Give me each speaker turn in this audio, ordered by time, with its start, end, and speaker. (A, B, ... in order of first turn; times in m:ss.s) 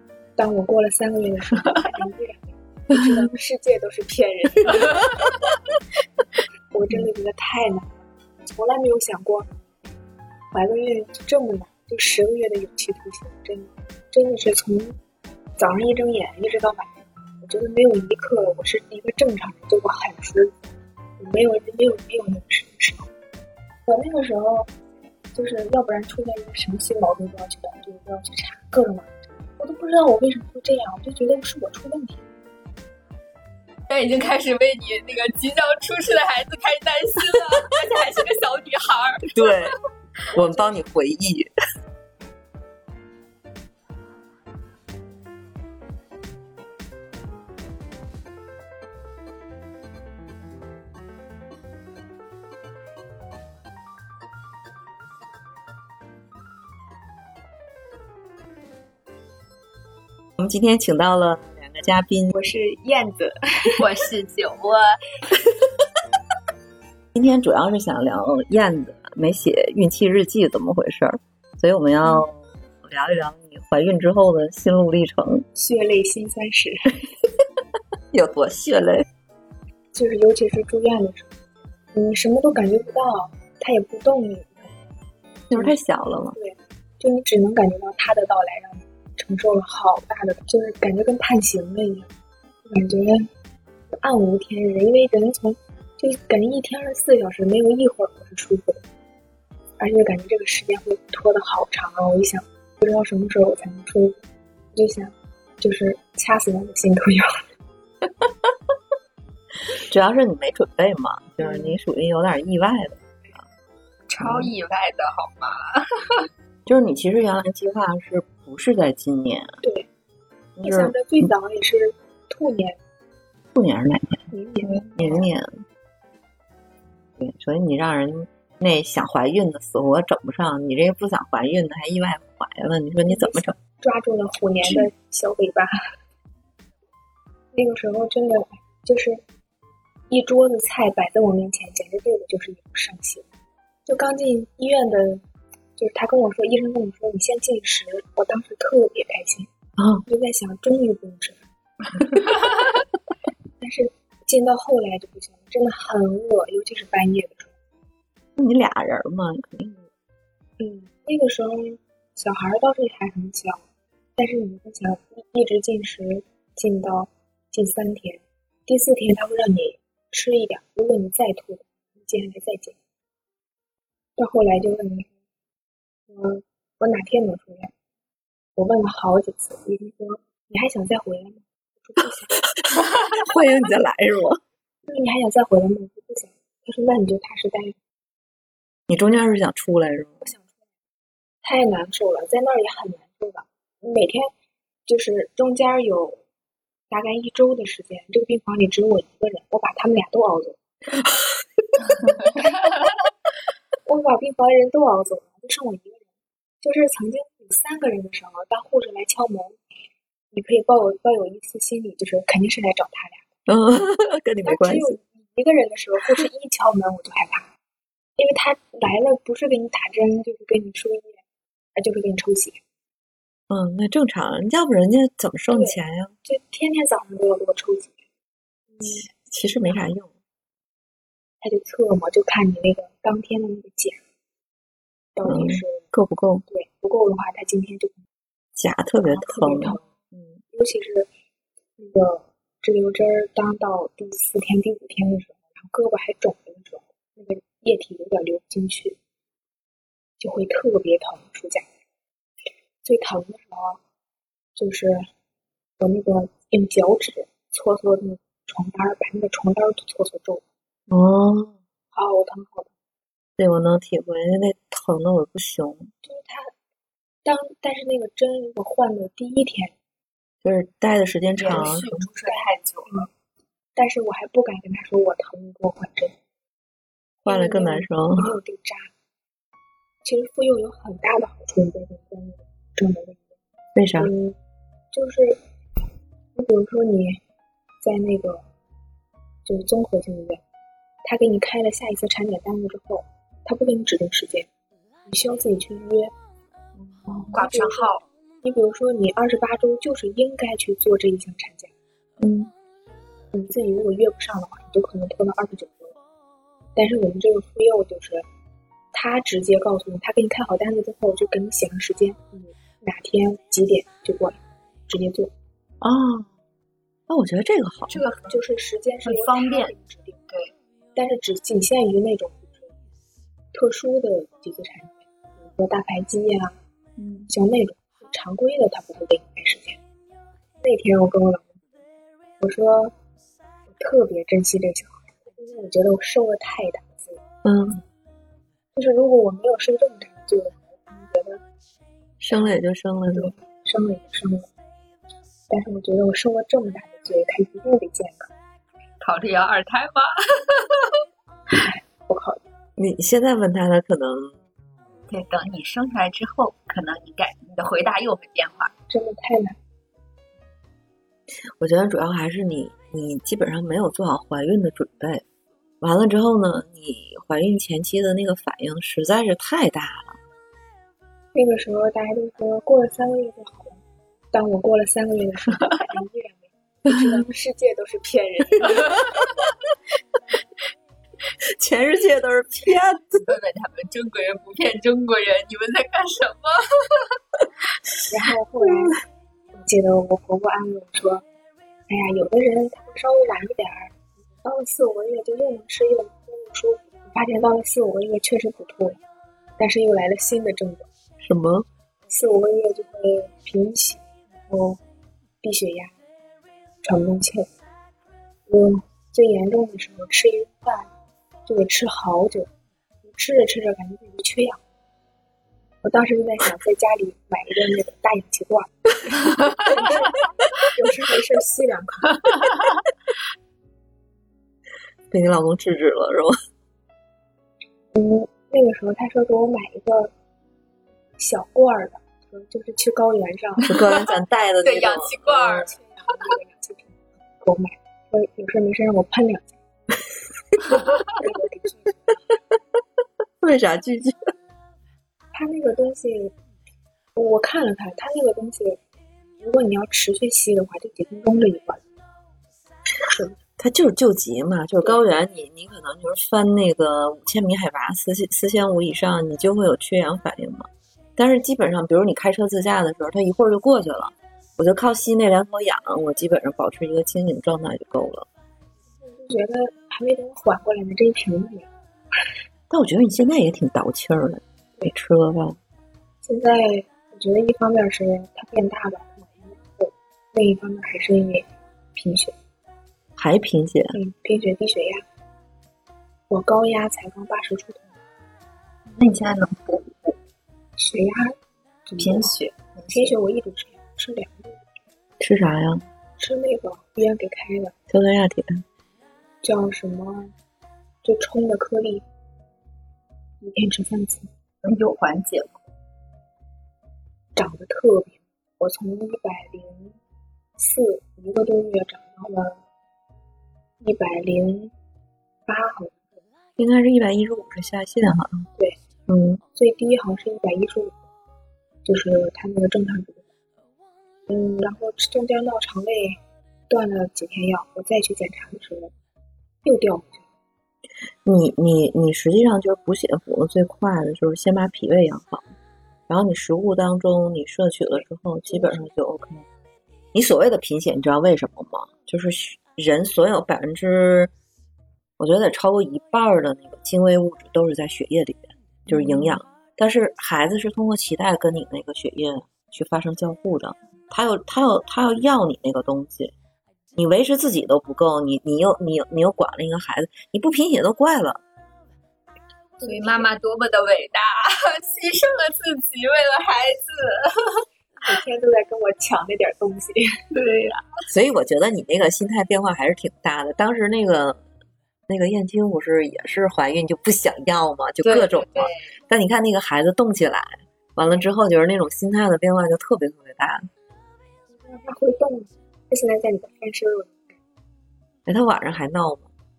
0:00.4-0:05.0 A
0:06.7-0:09.5 A
0:10.5-0:15.0 A
0:15.6-0:20.6 A
0:21.2-0:23.1 A
0:23.9-0:24.7 A
0:25.3-0:32.2 A
0:33.9-0:39.7 B
0:39.3-0:39.8 C
0:40.3-0:41.5 C
1:00.4-1:02.4 C
1:02.3-1:03.9 A
1:03.8-1:05.0 B
1:07.1-1:15.5 C
1:15.6-1:17.0 A
1:18.1-1:19.1 C
1:19.9-1:21.3 A
1:21.9-1:24.7 A
1:25.5-1:26.4 C
1:26.3-1:32.1 A
1:32.6-1:33.3 A
1:33.9-1:38.8 A
1:39.8-1:44.2 A
1:44.7-1:47.4 A
1:49.7-1:53.4 C
1:51.4-1:51.8 A
1:54.1-1:56.3 B
1:54.2-1:54.5 C
1:56.7-1:59.6 C
1:59.6-1:59.9 A
2:00.6-2:01.2 C
2:00.6-2:02.8 A
2:03.5-2:05.6 C
2:04.3-2:05.2 A
2:07.2-2:13.6 C
2:13.1-2:15.8 A
2:17.5-2:19.2 A
2:20.1-2:23.3 A
2:23.9-2:25.2 A
2:25.8-2:29.5 A
2:29.8-2:30.0 C
2:30.0-2:31.5 A
2:33.6-2:37.5 A
2:38.4-2:39.9 C
2:40.6-2:43.7 A
2:44.2-2:52.8 A
2:54.2-2:55.1 A
2:56.1-2:57.7 A
2:58.6-3:02.4 A
3:02.6-3:04.4 C
3:04.9-3:07.8 A
3:08.9-3:10.3 C
3:10.2-3:10.5 A
3:11.4-3:14.3 A
3:14.9-3:16.2 A
3:16.9-3:20.6 A
3:21.1-3:21.6 C
3:23.9-3:26.0 A
3:26.6-3:29.6 A
3:30.3-3:33.3 A
3:33.5-3:35.0 C
3:34.4-3:37.5 A
3:38.2-3:41.2 A
3:41.8-3:42.6 A
3:43.5-3:46.2 C
3:45.5-3:48.0 A
3:48.7-3:49.1 A
3:48.8-3:50.1 C
3:51.4-3:54.0 A
3:55.2-3:55.9 A
3:55.2-3:56.4 C
3:56.5-3:58.1 A
3:58.6-4:00.4 C
3:59.0-3:59.9 A
4:00.5-4:01.1 A
4:01.8-4:09.0 A
4:10.2-4:11.7 A
4:12.8-4:13.8 A
4:14.6-4:15.1 A
4:15.8-4:20.4 A
4:20.9-4:21.6 C
4:21.9-4:22.7 A
4:23.4-4:25.9 C
4:26.0-4:26.5 A
4:27.2-4:29.8 A
4:30.4-4:32.1 C
4:31.4-4:32.9 B
4:32.3-4:33.1 A
4:33.8-4:36.2 A
4:37.2-4:38.9 A
4:37.3-4:38.3 C
4:40.0-4:43.3 A
4:43.8-4:44.1 C
4:44.0-4:44.4 A
4:44.9-4:45.4 A
4:46.4-4:47.2 A
4:47.8-4:48.5 A
4:49.5-4:50.4 A
4:51.0-4:54.5 A
4:55.0-4:56.1 A
4:57.1-4:57.3 C
4:57.3-4:58.0 B
4:57.4-5:01.7 A
5:02.2-5:02.5 C
5:03.3-5:06.0 A
5:06.8-5:08.3 A
5:08.9-5:15.3 A
5:15.8-5:16.3 C
5:17.1-5:18.0 C
5:17.9-5:18.4 B
5:18.3-5:20.2 A
5:19.0-5:19.7 B
5:20.3-5:20.5 B
5:21.0-5:22.7 A
5:23.5-5:26.6 A
5:27.3-5:29.8 A
5:30.6-5:31.6 A
5:32.4-5:33.0 A
5:33.7-5:37.2 A
5:37.4-5:37.8 C
5:38.8-5:41.4 A
5:42.2-5:43.3 C
5:43.1-5:44.5 A
5:45.5-5:48.3 A
5:49.0-5:51.0 B
5:51.6-5:52.4 A
5:52.8-5:54.4 C
5:55.1-5:58.7 B
5:58.9-5:59.6 A
6:01.6-6:05.2 C
6:05.8-6:10.2 C
6:11.4-6:13.8 A
6:14.3-6:19.0 A
6:21.5-6:23.3 C
6:23.2-6:27.2 B
6:28.1-6:29.0 A
6:29.5-6:31.2 A
6:31.9-6:39.0 A
6:39.6-6:40.9 A
6:41.2-6:41.7 C
6:42.1-6:44.8 A
6:45.4-6:46.0 A
6:46.8-6:47.5 A
6:48.5-6:50.9 A
6:51.5-6:52.5 A
6:53.0-6:54.6 A
6:55.8-7:02.4 A
7:05.1-7:06.4 C
7:07.9-7:10.1 A
7:11.2-7:13.8 A
7:13.6-7:15.5 C
7:14.6-7:15.7 B
7:15.3-7:19.6 A
7:21.0-7:22.2 A
7:23.4-7:24.3 C
7:25.3-7:26.3 A
7:27.2-7:28.8 A
7:29.4-7:31.8 A
7:33.6-7:48.3 C
7:49.0-7:51.7 A
7:52.7-7:55.6 C
7:56.2-8:02.4 A
8:03.2-8:04.0 C
8:03.9-8:05.0 A
8:06.3-8:08.0 A
8:08.9-8:10.2 B
8:10.8-8:12.3 A
8:12.0-8:13.2 B
8:12.9-8:14.7 A
8:15.2-8:15.8 C
8:16.2-8:17.8 A
8:17.9-8:18.6 C
8:19.4-8:20.3 A
8:21.0-8:22.0 A
8:23.4-8:24.3 A
8:24.6-8:25.6 B
8:27.4-8:30.0 A
8:30.6-8:32.6 A
8:33.8-8:34.7 A
8:35.5-8:36.2 A
8:36.6-8:38.5 C
8:39.1-8:39.4 C
8:39.5-8:41.0 A
8:41.8-8:43.3 A
8:44.3-8:48.9 A
8:49.6-8:50.3 A
8:51.2-8:55.5 C
8:56.1-8:59.5 C
8:58.0-8:58.9 A
9:00.1-9:04.3 C
9:05.2-9:16.3 C
9:08.9-9:09.2 A
9:17.0-9:21.4 C
9:22.8-9:23.2 A
9:22.8-9:27.7 B
9:28.0-9:30.3 A
9:30.3-9:30.9 B
9:31.1-9:34.4 C
9:35.1-9:43.7 C
9:38.0-9:38.9 B
9:44.5-9:47.4 A
9:48.3-9:49.3 C